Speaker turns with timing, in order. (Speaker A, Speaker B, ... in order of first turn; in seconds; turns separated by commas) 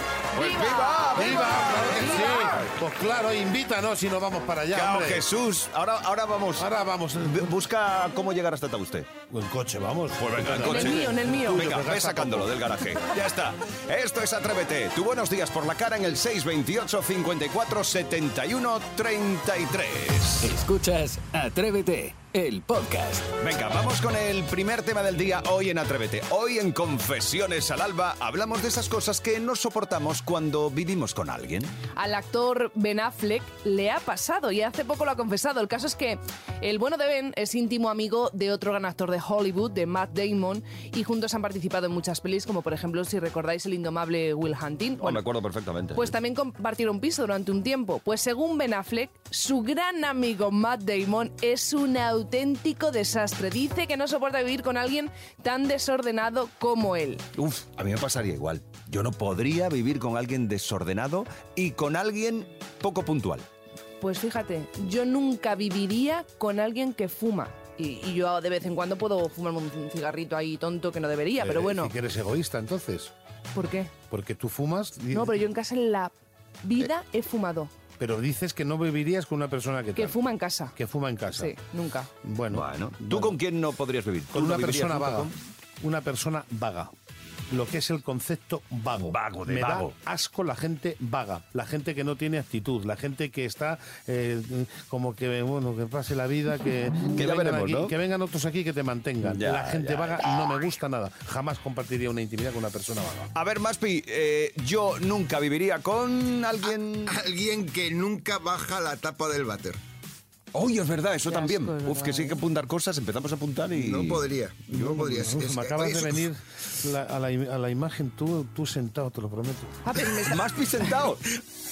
Speaker A: 0.3-2.3, Speaker B: 0.3-2.6, Speaker C: 1.1-5.2, Speaker A: 4.7-6.7, Speaker C: 6.6-7.5, Speaker A: 7.2-9.1, Speaker C: 9.3-12.5, Speaker A: 10.2-20.5, Speaker B: 10.6-11.7, Speaker D: 20.4-23.3, Speaker A: 23.4-31.7, Speaker B: 31.9-45.2, Speaker A: 45.0-46.1, Speaker B: 45.9-57.2, Speaker A: 57.4-63.5, Speaker B: 64.0-71.9, Speaker C: 71.4-73.1, Speaker B: 73.5-73.9, Speaker C: 74.1-75.4, Speaker B: 75.1-77.7, Speaker C: 78.0-80.2, Speaker B: 80.0-80.8, Speaker C: 80.8-81.5, Speaker B: 81.3-82.1, Speaker C: 82.2-83.4, Speaker A: 82.5-85.3, Speaker C: 84.3-86.9, Speaker C: 87.5-103.3, Speaker A: 89.0-89.9, Speaker A: 97.2-97.9, Speaker A: 99.3-100.2, Speaker A: 103.3-107.2, Speaker E: 107.1-109.8, Speaker A: 110.5-115.0, Speaker B: 111.3-112.4, Speaker E: 113.7-116.3, Speaker C: 114.8-119.8, Speaker B: 119.8-120.4, Speaker A: 120.2-121.2